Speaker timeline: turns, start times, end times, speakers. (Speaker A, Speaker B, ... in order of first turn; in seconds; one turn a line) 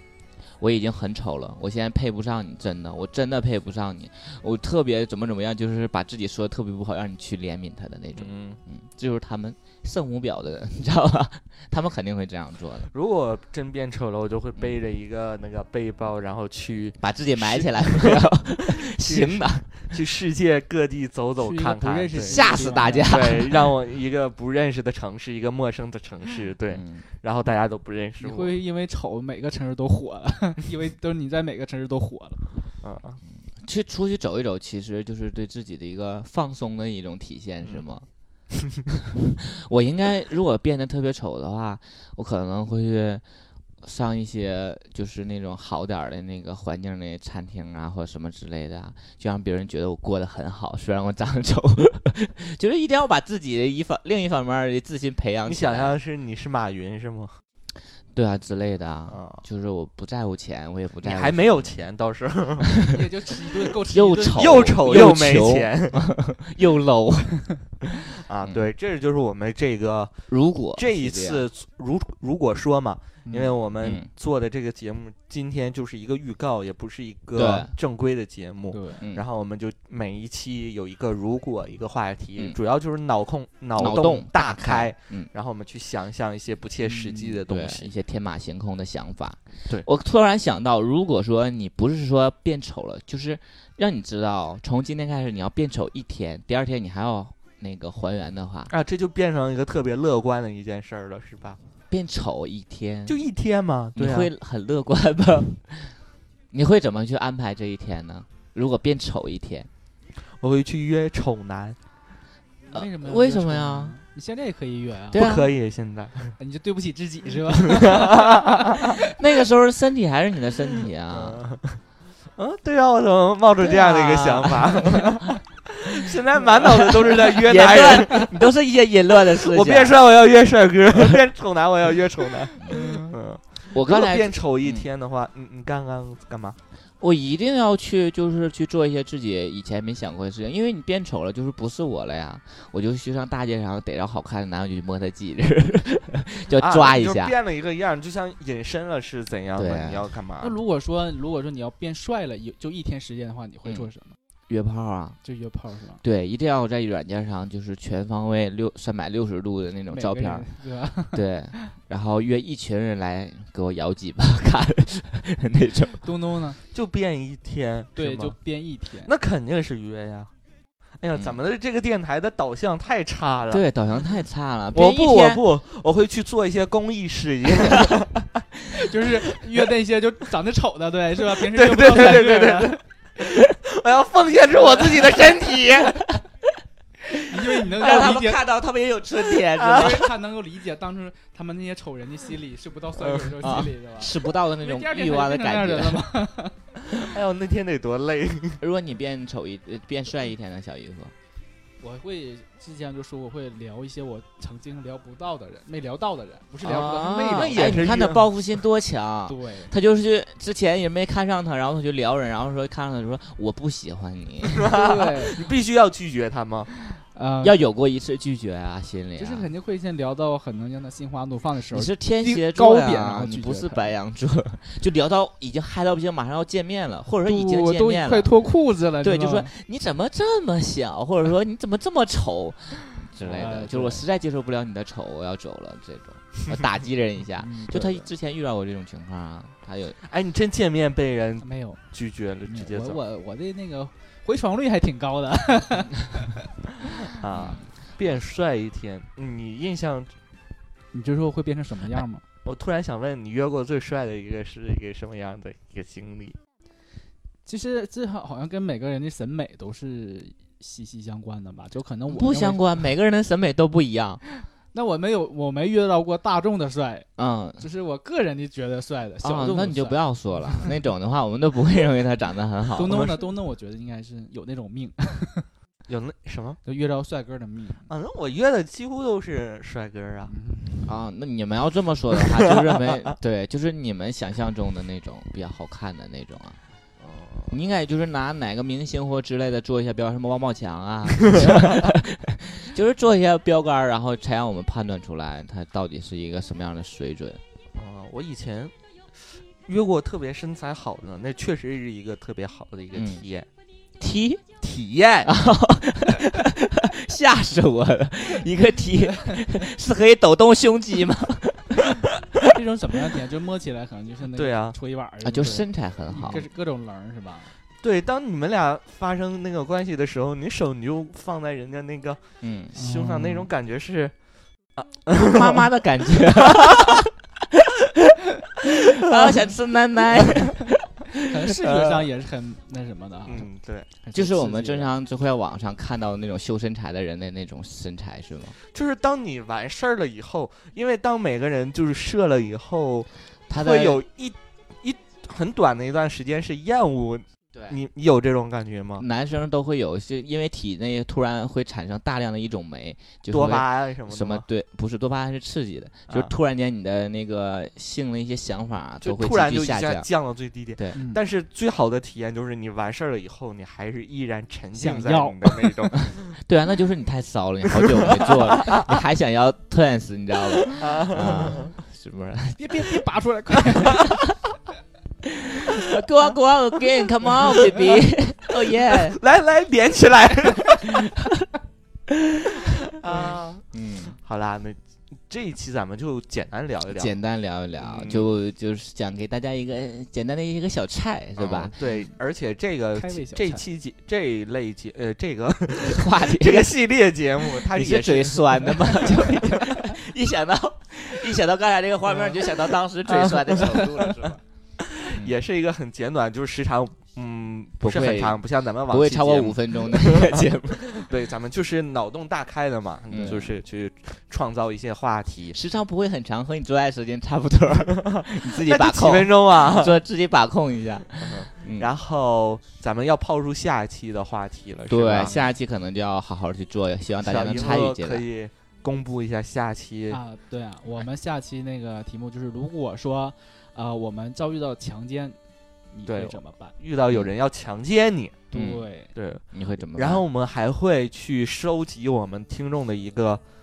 Speaker A: 0.6-12.9
Speaker B: 8.2-8.6
Speaker B: 12.9-28.6
Speaker A: 17.0-20.0
Speaker C: 21.4-23.2
Speaker A: 22.2-23.7
Speaker A: 26.7-27.1
Speaker C: 28.2-32.5
Speaker B: 32.8-33.2
Speaker A: 33.5-38.1
Speaker A: 39.1-43.2
Speaker A: 43.8-56.0
Speaker B: 55.5-57.4
Speaker A: 58.1-61.7
Speaker B: 59.1-59.4
Speaker B: 61.0-62.9
Speaker C: 62.9-65.2
Speaker A: 63.9-67.5
Speaker B: 64.3-66.1
Speaker B: 68.2-70.1
Speaker A: 70.3-71.5
Speaker B: 70.7-87.9
Speaker C: 73.3-73.6
Speaker A: 73.8-74.1
Speaker A: 77.4-77.7
Speaker C: 78.7-79.0
Speaker A: 83.8-85.3
Speaker C: 86.9-87.4
Speaker A: 87.5-98.7
Speaker B: 98.7-101.6
Speaker A: 101.9-103.2
Speaker B: 103.1-104.3
Speaker A: 104.0-106.0
Speaker A: 106.5-109.7
Speaker B: 110.4-111.8
Speaker C: 112.7-115.2
Speaker A: 112.7-114.0
Speaker A: 115.1-115.5
Speaker B: 115.1-116.3
Speaker C: 116.4-118.9
Speaker B: 117.7-118.8
Speaker A: 119.0-121.4
Speaker B: 121.1-121.8
Speaker B: 122.4-128.3
Speaker A: 123.7-124.8
Speaker A: 126.6-130.0
Speaker B: 129.4-136.6
Speaker C: 132.7-133.1
Speaker A: 133.7-134.9
Speaker A: 137.0-147.3
Speaker B: 146.5-150.6
Speaker A: 149.6-150.0
Speaker C: 150.4-154.2
Speaker A: 154.5-155.2
Speaker C: 155.2-156.0
Speaker A: 156.0-160.5
Speaker C: 159.9-161.7
Speaker A: 161.1-166.1
Speaker C: 166.0-166.6
Speaker B: 166.7-168.3
Speaker C: 168.0-169.1
Speaker B: 169.1-170.3
Speaker B: 171.0-173.7
Speaker A: 173.5-175.4
Speaker B: 174.7-178.3
Speaker C: 178.7-182.8
Speaker B: 181.5-186.1
Speaker C: 187.3-188.4
Speaker A: 187.8-190.1
Speaker B: 189.6-190.0
Speaker C: 189.6-196.6
Speaker B: 193.0-193.3
Speaker A: 193.4-196.1
Speaker B: 197.0-198.6
Speaker A: 198.6-201.1
Speaker C: 201.8-207.9
Speaker A: 206.6-214.7
Speaker B: 207.3-208.3
Speaker C: 209.3-209.7
Speaker B: 214.6-216.7
Speaker C: 214.7-215.4
Speaker C: 217.1-217.6
Speaker A: 217.4-219.5
Speaker C: 219.2-223.9
Speaker A: 221.7-228.3
Speaker C: 227.2-229.5
Speaker A: 229.0-240.0
Speaker C: 233.2-234.0
Speaker C: 237.4-238.1
Speaker B: 240.1-243.0
Speaker C: 241.4-241.8
Speaker C: 242.5-246.5
Speaker B: 247.1-250.1
Speaker C: 250.9-252.2
Speaker B: 252.4-256.4
Speaker C: 257.5-262.8
Speaker A: 262.1-264.2
Speaker C: 264.7-267.1
Speaker A: 267.2-267.6
Speaker C: 267.6-270.7
Speaker A: 269.2-273.1
Speaker C: 272.8-275.5
Speaker B: 272.9-273.2
Speaker B: 275.9-276.6
Speaker C: 276.6-277.9
Speaker B: 277.9-280.3
Speaker C: 280.3-280.9
Speaker A: 280.9-286.6
Speaker B: 282.4-283.1
Speaker B: 287.0-287.5
Speaker A: 287.5-297.4
Speaker B: 297.8-298.7
Speaker B: 299.7-303.5
Speaker A: 302.9-303.2
Speaker A: 304.0-304.4
Speaker B: 304.6-305.3
Speaker A: 305.2-312.1
Speaker C: 312.5-317.5
Speaker B: 314.4-314.8
Speaker A: 315.2-316.5
Speaker B: 317.8-322.2
Speaker A: 322.4-322.7
Speaker B: 322.7-324.1
Speaker C: 322.8-323.5
Speaker B: 324.8-325.7
Speaker A: 325.1-327.1
Speaker B: 326.3-327.0
Speaker A: 328.9-331.2
Speaker B: 330.1-330.4
Speaker C: 331.3-333.5
Speaker B: 333.3-333.9
Speaker C: 334.0-334.9
Speaker A: 334.1-338.6
Speaker B: 338.7-349.1
Speaker A: 343.5-344.0
Speaker A: 349.0-360.1
Speaker B: 353.3-354.4
Speaker B: 359.0-366.4
Speaker C: 360.9-361.2
Speaker C: 364.8-365.7
Speaker A: 366.4-372.7
Speaker B: 367.8-368.9
Speaker B: 370.7-371.7
Speaker C: 372.6-374.1
Speaker A: 373.9-374.2
Speaker A: 375.2-379.2
Speaker B: 378.9-381.0
Speaker A: 382.1-382.4
Speaker B: 383.0-383.6
Speaker A: 383.7-384.2
Speaker B: 384.2-387.2
Speaker A: 386.9-391.8
Speaker B: 387.8-388.3
Speaker B: 391.4-399.7
Speaker C: 392.9-393.6
Speaker A: 395.8-396.8
Speaker A: 397.6-404.4
Speaker B: 403.2-403.9
Speaker B: 404.9-415.6
Speaker A: 405.1-405.4
Speaker A: 407.8-411.0
Speaker A: 413.1-413.6
Speaker A: 415.5-421.9
Speaker B: 417.9-420.0
Speaker B: 421.2-425.4
Speaker A: 424.9-428.2
Speaker B: 427.2-430.2
Speaker C: 430.1-435.4
Speaker C: 435.9-436.8
Speaker B: 436.1-438.4
Speaker C: 438.5-439.1
Speaker A: 438.5-438.9
Speaker B: 439.1-443.4
Speaker A: 439.5-440.2